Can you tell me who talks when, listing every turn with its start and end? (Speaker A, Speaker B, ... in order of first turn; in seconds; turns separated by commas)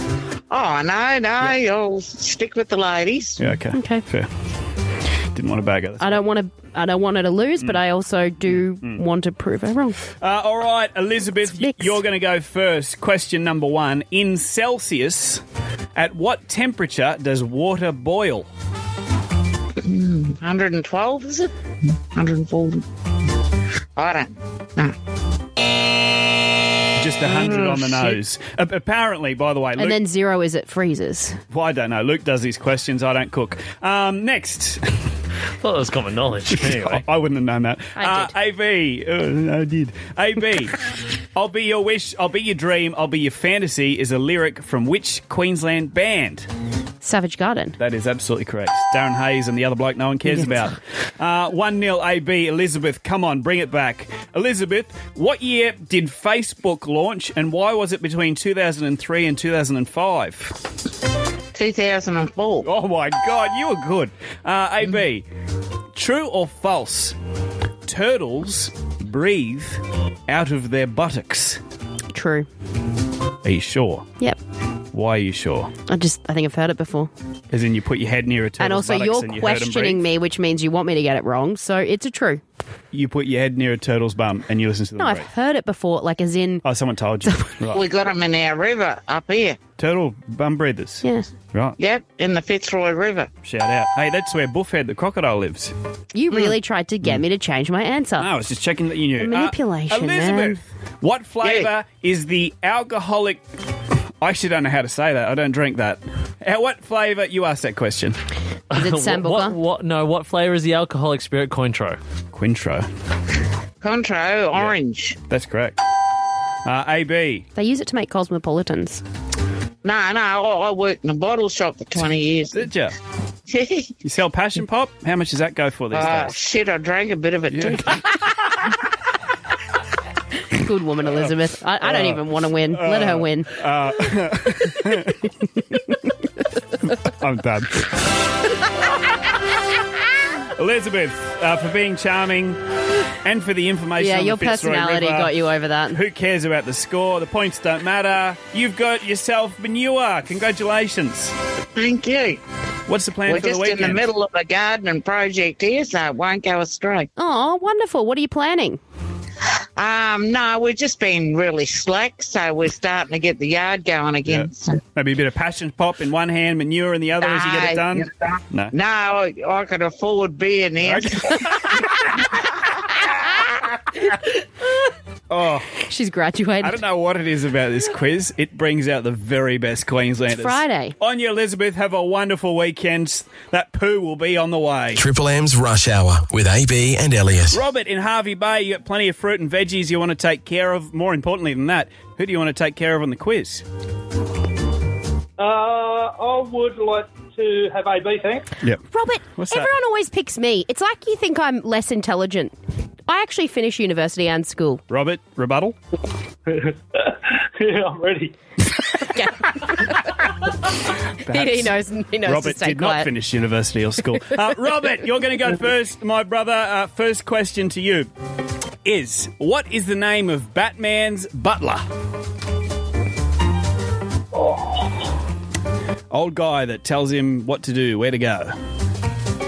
Speaker A: 0.5-3.4, Speaker B: 3.4-4.3, Speaker C: 3.7-4.0, Speaker B: 5.3-6.2, Speaker C: 6.0-10.0, Speaker B: 8.5-9.0, Speaker B: 10.2-15.4, Speaker C: 11.5-11.9, Speaker B: 15.9-18.5, Speaker A: 19.8-21.5, Speaker A: 22.1-22.8, Speaker A: 23.9-24.9, Speaker B: 27.0-30.0, Speaker A: 27.2-28.2, Speaker C: 29.8-31.4, Speaker B: 31.5-34.8, Speaker D: 35.6-37.0, Speaker B: 36.5-40.7, Speaker C: 38.0-38.3, Speaker B: 41.4-46.5, Speaker C: 47.0-47.8, Speaker B: 47.8-60.5, Speaker A: 61.5-62.6, Speaker B: 62.6-65.2, Speaker B: 65.9-67.2, Speaker B: 67.8-71.6, Speaker C: 72.1-72.5, Speaker B: 73.4-74.1, Speaker B: 74.9-75.7, Speaker C: 75.9-77.1, Speaker B: 77.5-80.0, Speaker C: 78.6-82.4, Speaker B: 82.9-85.3, Speaker C: 85.0-86.6, Speaker B: 86.6-87.8, Speaker C: 87.2-87.6, Speaker A: 87.7-89.6, Speaker B: 89.8-91.8, Speaker C: 91.0-91.3, Speaker A: 91.8-93.3, Speaker B: 93.4-95.7, Speaker C: 96.1-98.3, Speaker B: 98.2-103.4, Speaker C: 99.2-100.6, Speaker A: 101.4-101.7, Speaker B: 104.2-108.2, Speaker D: 108.7-112.0, Speaker C: 108.7-109.6, Speaker B: 112.3-112.9, Speaker A: 113.8-115.2, Speaker B: 114.5-115.8, Speaker B: 116.7-117.4, Speaker C: 117.5-119.0, Speaker A: 119.8-122.7, Speaker B: 122.5-122.9, Speaker A: 123.5-123.9, Speaker B: 124.0-126.4, Speaker A: 125.9-128.0, Speaker B: 127.5-128.3, Speaker C: 130.5-133.5, Speaker B: 131.8-135.7, Speaker B: 136.8-137.8, Speaker B: 140.6-142.6, Speaker B: 143.2-145.3, Speaker C: 144.0-146.0, Speaker B: 145.9-151.3, Speaker A: 151.8-152.4, Speaker B: 152.9-154.1, Speaker A: 153.2-157.1, Speaker C: 157.2-158.8, Speaker A: 159.8-164.8, Speaker B: 164.2-168.7, Speaker A: 167.2-171.9, Speaker B: 170.8-171.7, Speaker B: 175.3-175.7, Speaker C: 175.8-176.8, Speaker B: 176.6-185.0, Speaker C: 180.3-180.9, Speaker E: 184.9-187.6, Speaker B: 187.5-193.6, Speaker F: 195.4-198.5, Speaker C: 198.9-202.5, Speaker B: 199.3-199.7, Speaker C: 203.1-204.8, Speaker B: 204.9-205.8, Speaker F: 206.5-208.3, Speaker C: 208.9-210.7, Speaker C: 211.2-213.1, Speaker B: 211.2-218.1, Speaker B: 218.8-221.8, Speaker F: 224.3-224.9, Speaker B: 226.1-228.5